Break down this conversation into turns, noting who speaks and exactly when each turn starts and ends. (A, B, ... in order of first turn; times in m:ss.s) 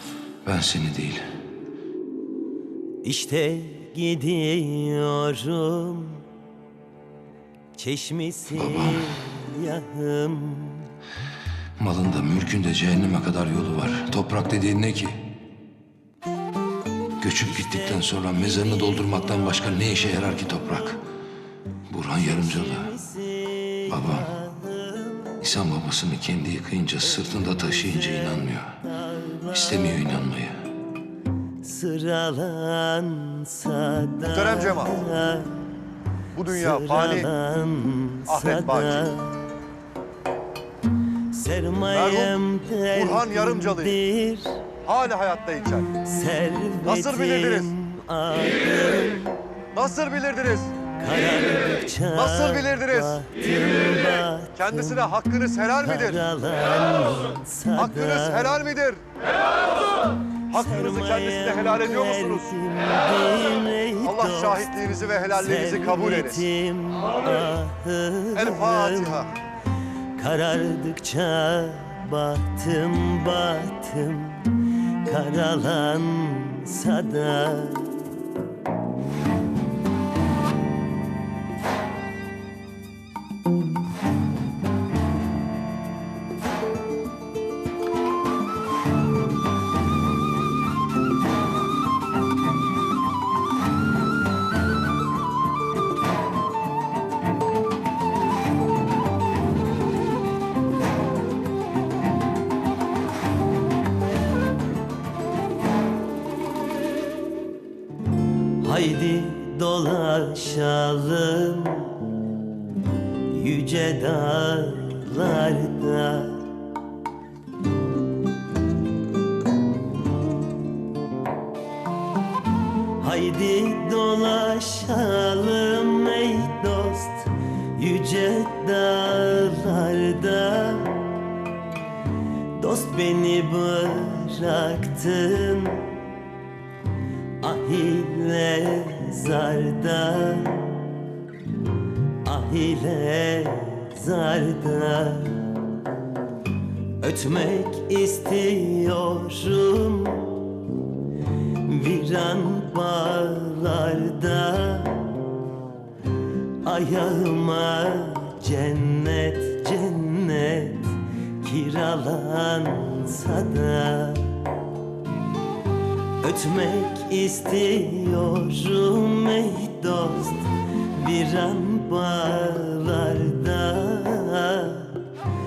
0:00.4-0:01.3 A
0:03.0-0:06.3 B
0:07.8-0:10.9 B
0:08.5-0:09.2 A
0:11.8-0:15.3 A
0:17.2-0:21.0 A
0:17.4-0:21.0 B
0:21.9-0:22.9 A
0:22.1-0:25.4 B
0:23.9-0:24.3 A
0:25.4-0:28.8 A
0:27.0-0:30.1 B
0:29.5-0:30.7 A
0:31.6-0:35.7 B
0:34.3-0:35.0 C
0:36.3-0:37.3 C
0:36.5-0:39.5 B
0:38.3-0:39.1 C
0:41.3-0:44.8 B
0:42.0-0:42.4 C
0:42.9-0:44.0 C
0:44.8-0:45.9 C
0:45.9-0:49.5 B
0:46.8-0:47.7 C
0:49.7-0:50.8 C
0:50.9-0:55.2 B
0:52.2-0:53.3 C
0:54.6-0:56.2 C
0:55.8-0:58.7 B
0:57.8-0:59.0 C
1:00.5-1:04.8 B
1:00.5-1:02.5 C
1:04.0-1:06.4 C
1:05.3-1:09.3 B
1:08.4-1:09.4 C
1:10.1-1:18.0 B
1:48.6-1:52.2 B
1:53.3-1:56.5 B
2:03.0-2:11.0 B
2:12.5-2:16.0 B
2:17.4-2:20.8 B
2:22.2-2:25.6 B
2:27.0-2:30.6 B
2:31.5-2:35.2 B
2:36.6-2:44.4 B
2:46.2-2:55.1 B